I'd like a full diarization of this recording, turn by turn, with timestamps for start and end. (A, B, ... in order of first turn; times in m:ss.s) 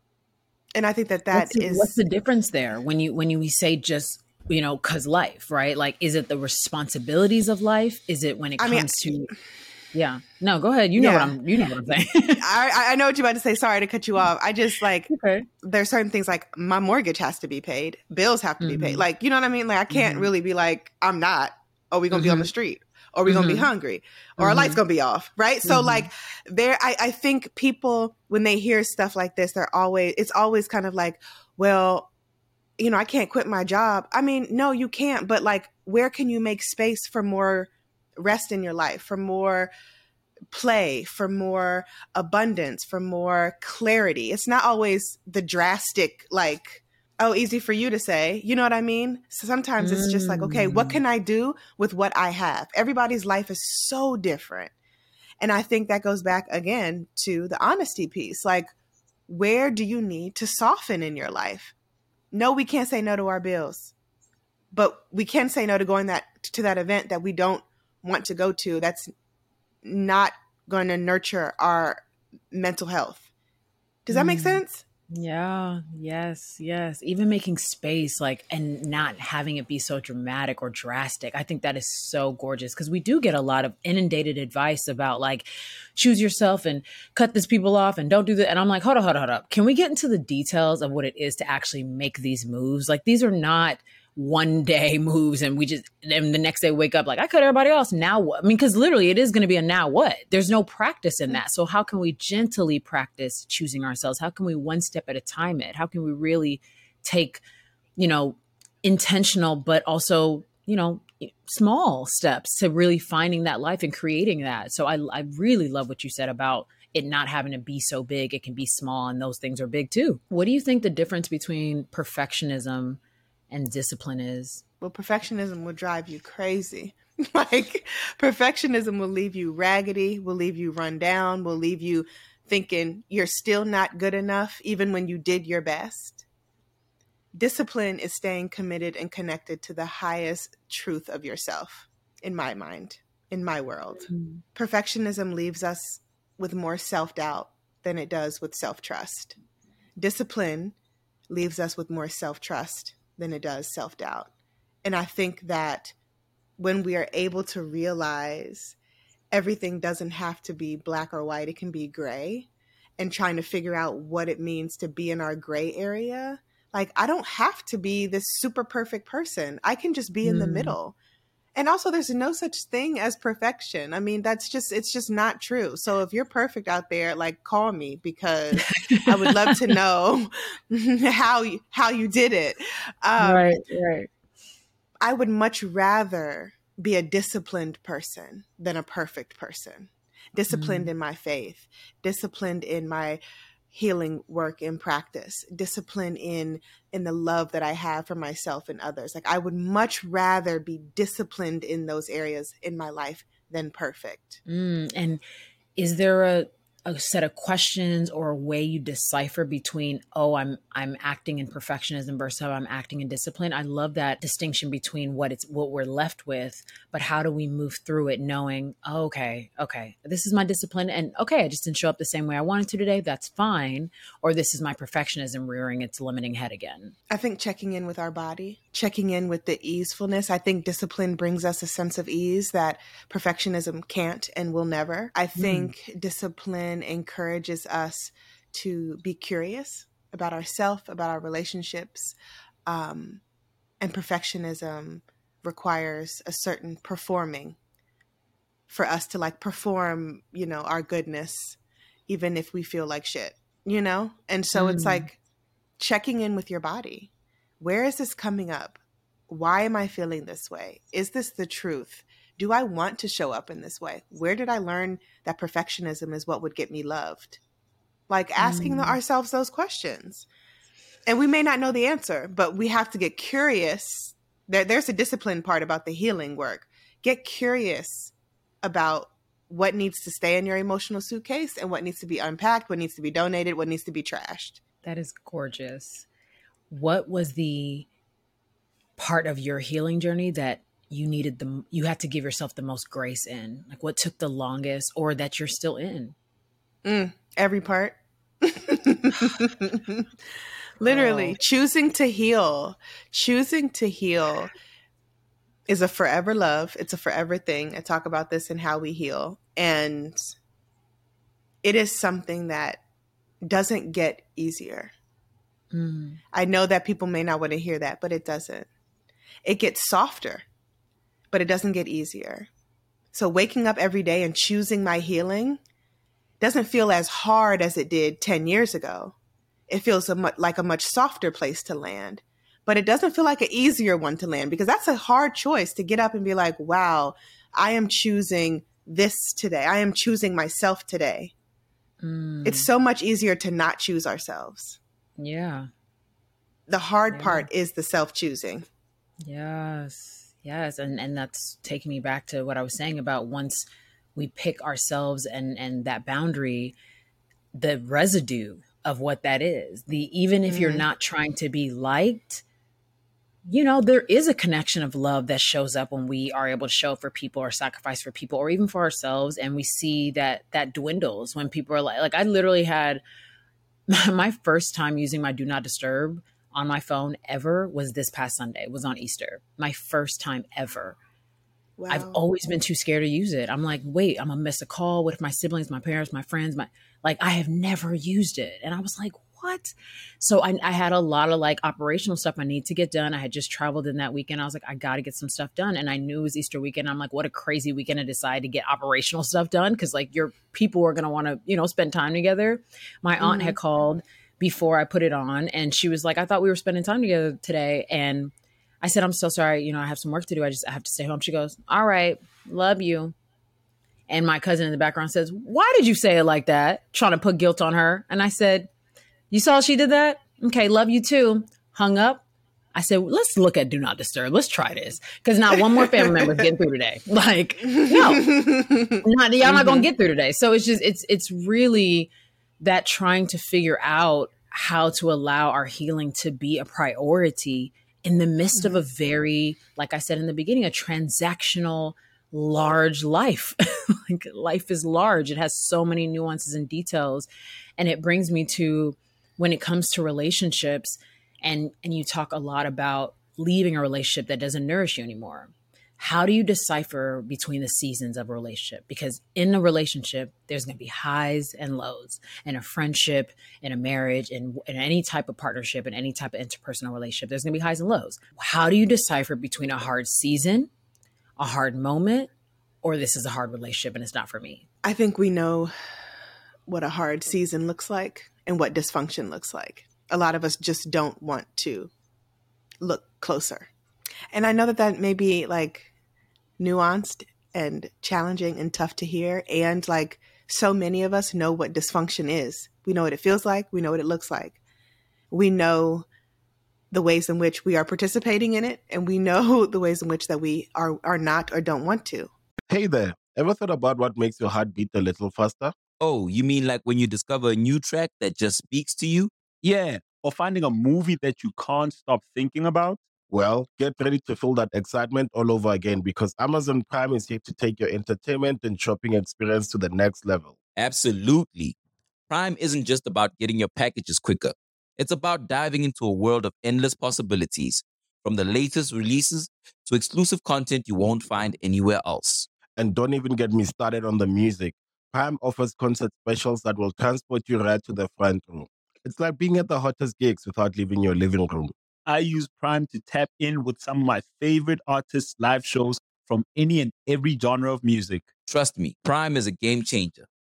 0:00.7-0:02.0 A
0:01.3-0:09.3 B
0:08.6-0:09.4 A
0:09.9-0:12.4 B
0:11.0-0:11.4 A
0:12.4-0:32.1 A
0:15.1-0:15.5 B
0:18.6-0:19.0 B
0:19.9-0:20.3 B
0:22.1-0:22.5 B
0:23.2-0:23.7 B
0:24.4-0:24.8 B
0:25.6-0:26.1 B
0:32.8-0:39.7 A
0:40.5-0:54.7 A
0:49.8-0:51.0 B
0:55.4-0:58.7 A
0:59.3-1:01.7 A
1:02.3-1:03.9 A
1:04.7-1:09.1 A
1:09.8-1:13.3 A
1:14.1-1:14.8 A
1:14.1-1:47.4 B
1:48.0-2:03.0 B
2:03.5-2:04.6 B
2:04.8-2:16.2 A
2:17.3-2:29.4 A
2:24.0-2:24.4 B
2:30.0-2:30.7 A
2:31.3-2:34.3 A
2:34.8-2:35.9 A
2:36.6-2:38.8 A
2:39.3-2:51.0 A
2:50.2-2:50.8 B
2:51.6-3:03.5 A
2:58.7-2:59.6 B
3:03.2-3:04.1 B
3:05.0-3:24.4 A
3:10.5-3:10.9 B
3:24.4-3:25.2 B
3:25.8-3:46.9 B
3:47.1-4:03.2 A
3:55.4-3:55.7 B
4:03.8-4:07.6 A
4:08.7-4:15.2 A
4:14.6-4:15.1 B
4:15.8-4:27.4 A
4:28.1-4:30.3 A
4:28.4-4:29.0 B
4:31.1-4:44.6 A
4:44.8-4:46.1 B
4:46.7-4:47.9 B
4:49.0-4:56.1 B
4:56.8-5:00.1 A
5:00.8-5:04.5 A
5:00.8-5:01.4 B
5:05.7-5:10.2 A
5:11.6-5:12.8 A
5:13.4-5:14.9 A
5:15.7-5:16.2 B
5:16.3-5:18.7 A
5:19.4-5:20.4 A
5:21.3-5:22.5 A
5:23.1-5:25.6 A
5:26.4-5:29.1 A
5:29.7-5:41.3 A
5:42.0-5:42.7 B
5:42.4-5:44.8 A
5:45.2-5:45.7 B
5:46.7-5:48.6 A
5:47.1-5:47.5 B
5:49.2-5:56.7 B
5:57.5-6:02.4 B
6:00.5-6:00.9 A
6:03.4-6:13.0 B
6:13.9-6:21.0 B
6:21.8-6:22.2 A
6:21.9-6:53.1 B
6:43.2-6:43.6 A
6:54.1-6:58.7 B
6:59.3-7:02.2 B
7:02.7-7:08.4 B
7:05.6-7:06.3 A
7:07.7-7:09.9 A
7:09.0-7:50.7 B
7:51.4-7:52.3 B
7:52.8-7:54.6 B
7:54.8-7:55.7 A
7:56.7-8:01.9 A
8:02.8-8:03.7 A
8:04.3-8:05.9 A
8:06.6-8:14.6 A
8:15.3-8:16.1 A
8:16.9-8:22.3 A
8:22.7-8:25.7 C
8:26.0-8:29.3 D
8:29.6-8:33.0 E
8:33.3-8:40.6 C
8:40.8-8:41.8 D
8:42.3-8:52.5 D
8:52.8-9:01.7 C
9:02.0-9:08.3 E
9:08.4-9:10.3 D